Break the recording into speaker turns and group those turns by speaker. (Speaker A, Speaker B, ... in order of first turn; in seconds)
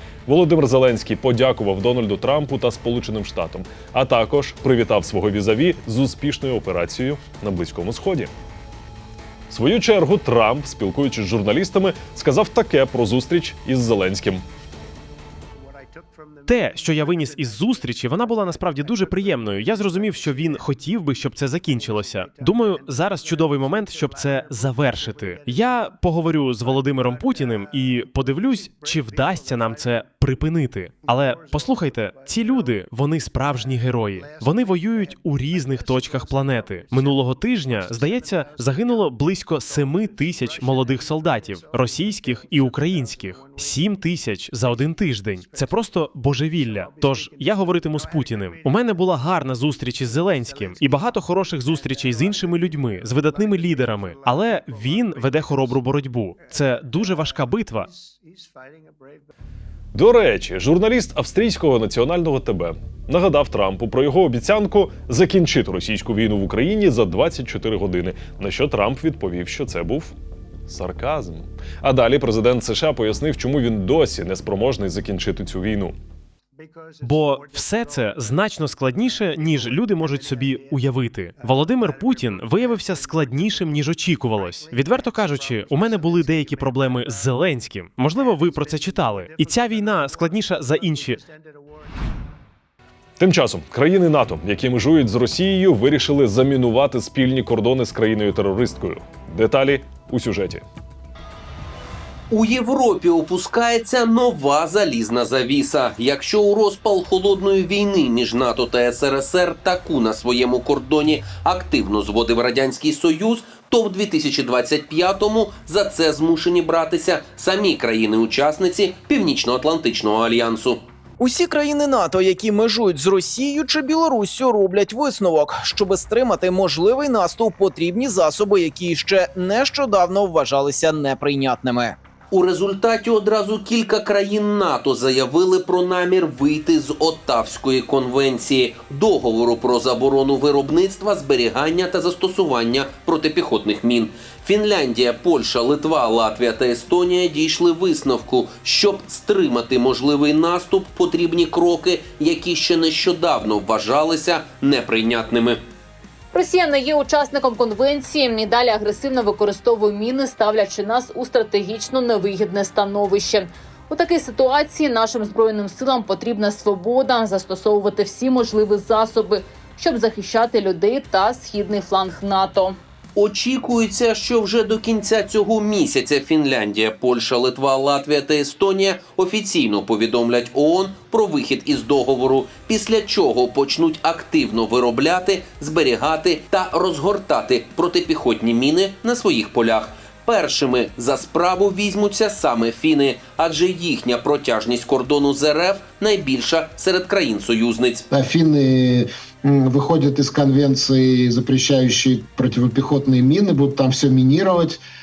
Speaker A: 0.3-8.3, 9.5-14.4, 59.9-70.1, 70.7-76.0, 93.2-100.6
Speaker B: 16.5-57.9, 77.0-91.2
Speaker C: 102.3-120.8, 132.3-155.6, 173.2-198.0
Speaker D: 121.2-132.0
Speaker E: 156.3-172.8
Speaker F: 198.1-204.8